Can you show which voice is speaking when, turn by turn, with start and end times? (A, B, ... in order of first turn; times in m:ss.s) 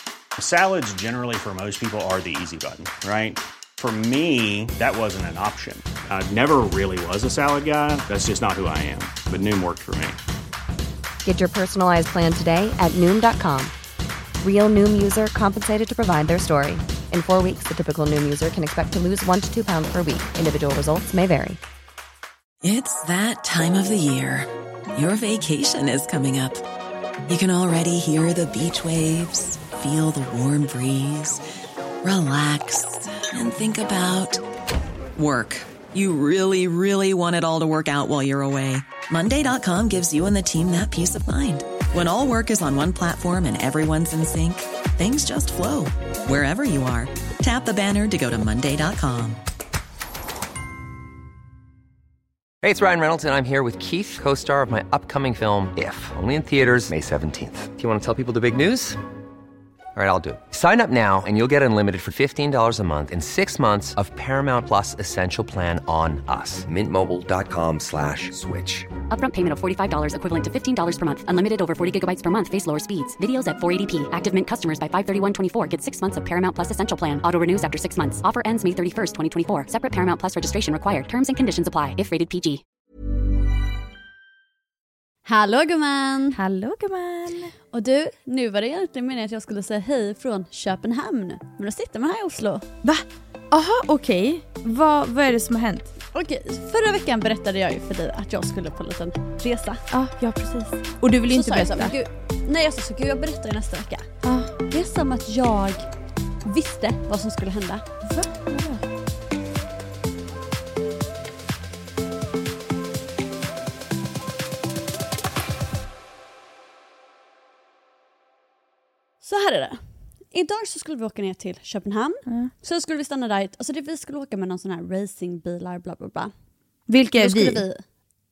0:00.4-0:10.2 A
0:11.2-0:13.7 B
0:14.4-0:21.6 B
0:22.6-0:26.6 C
0:27.3-0:31.4 C
0:32.0-0:34.4 C
0:35.2-0:49.4 C
0:52.6-0:59.0 D
1:00.0-1:08.9 D
1:09.1-1:22.6 E
1:25.3-1:26.4 F
1:26.4-1:27.5 G
1:27.7-1:32.7 F
1:32.8-1:35.9 G
1:36.1-1:39.8 F
1:39.9-1:41.9 G
1:41.3-1:44.1 F
1:44.2-1:44.5 G
1:44.6-1:45.9 F
1:46.4-1:47.9 F
1:48.0-1:48.8 G
1:59.2-2:06.3 F
2:06.9-2:07.6 G
2:07.1-2:07.8 F